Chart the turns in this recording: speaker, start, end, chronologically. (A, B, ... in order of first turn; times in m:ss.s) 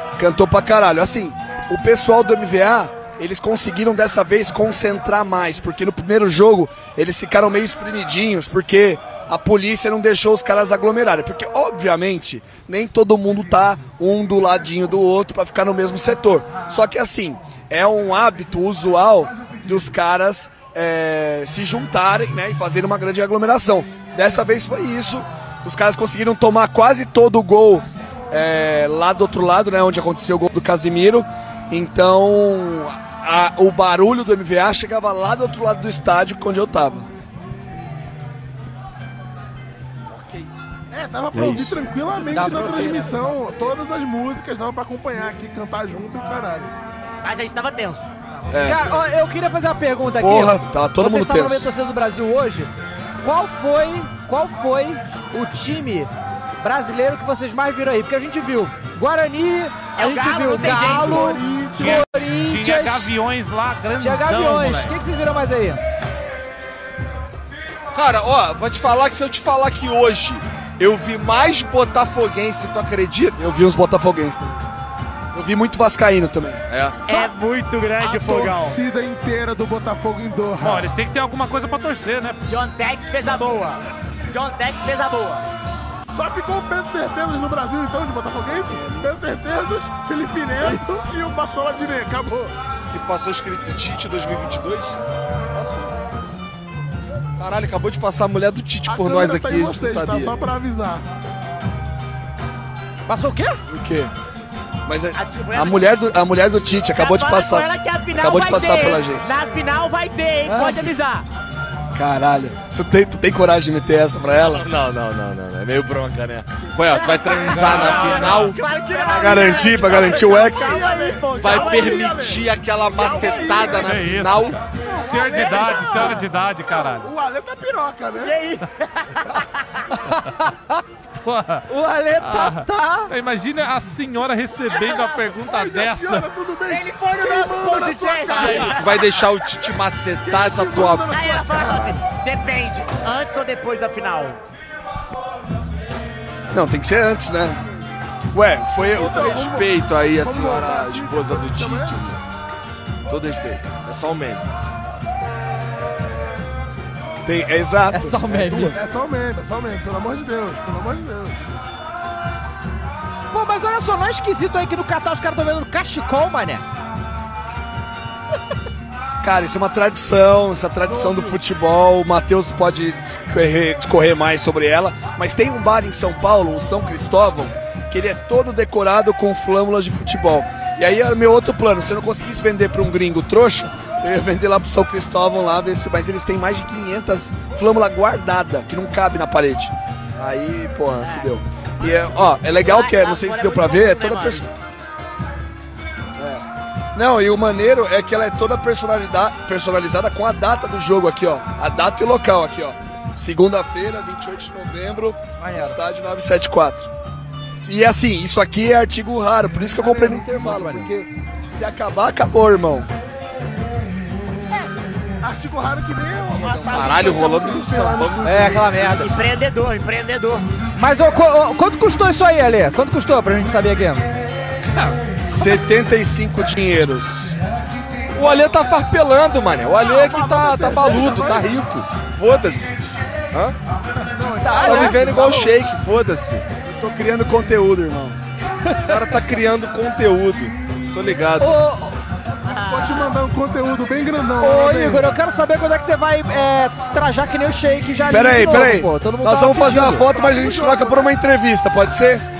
0:00.2-0:37.0 A
0:40.9-0:46.7 B
0:41.3-0:41.8 A
0:42.3-0:43.1 C
0:47.2-0:48.1 D
0:48.5-0:48.8 A
0:48.6-1:03.1 C
0:50.2-0:51.7 A
0:59.9-1:01.4 D
1:00.7-1:02.0 B
1:01.8-1:05.0 E
1:04.0-1:05.8 C
1:07.9-1:13.4 F
1:13.4-1:14.6 A
1:15.3-1:16.6 A
1:16.7-1:17.1 F
1:17.0-1:18.8 D
1:18.0-1:20.9 B
1:20.6-1:22.4 E
1:22.5-1:25.5 D
1:26.1-1:32.5 B
1:28.4-1:29.1 A
1:30.7-1:31.0 C
1:32.9-1:35.0 F
1:35.5-1:35.9 F
1:37.4-1:40.3 F
1:38.9-1:41.0 B
1:43.1-1:43.6 C
1:43.7-1:44.1 A
1:44.8-1:49.3 A
1:45.1-1:46.1 D
1:47.0-1:51.2 D
1:50.4-1:50.8 C
1:51.9-1:54.6 A
1:54.4-1:58.6 F
1:56.8-2:02.3 D
1:57.5-1:58.6 E
1:57.5-2:04.2 B
1:59.1-2:00.8 A
2:01.3-2:04.6 F
2:03.1-2:03.7 D
2:03.7-2:07.1 E
2:04.8-2:06.3 B
2:06.8-2:08.3 B
2:08.2-2:09.5 D
2:10.1-2:10.5 C
2:11.2-2:11.7 E
2:11.7-2:13.1 C
2:12.2-2:16.3 E
2:15.4-2:18.8 B
2:16.7-2:19.0 D
2:18.3-2:21.1 F
2:20.2-2:22.0 B
2:21.1-2:24.4 D
2:26.5-2:27.6 A
2:28.3-2:29.3 A
2:28.8-2:32.0 B
2:29.0-2:32.2 F
2:33.1-2:34.4 F
2:37.2-2:38.8 A
2:37.9-2:38.8 C
2:38.7-2:41.4 B
2:43.3-2:46.6 C
2:49.2-3:14.5 A
2:50.8-2:51.4 B
3:11.0-3:11.3 D
3:11.8-3:14.4 D
3:16.2-3:16.4 A
3:16.9-3:26.9 A
3:25.4-3:25.8 C
3:27.6-3:32.9 A
3:29.8-3:30.9 C
3:35.2-3:38.6 B
3:36.3-3:37.4 D
3:36.7-3:38.3 F
3:38.2-3:39.1 C
3:38.6-3:40.4 D
3:40.8-3:44.1 C
3:44.7-3:45.0 E
3:45.2-3:47.3 A
3:48.1-3:52.7 F
3:49.7-3:51.5 B
3:54.1-3:55.5 B
3:54.4-3:55.3 C
3:54.6-3:56.4 F
3:56.6-3:58.2 A
3:58.7-3:59.0 C
3:58.8-4:01.6 F
4:01.4-4:02.0 C
4:02.5-4:03.0 D
4:02.6-4:05.1 B
4:04.4-4:10.1 C
4:08.1-4:12.2 A
4:09.8-4:11.1 B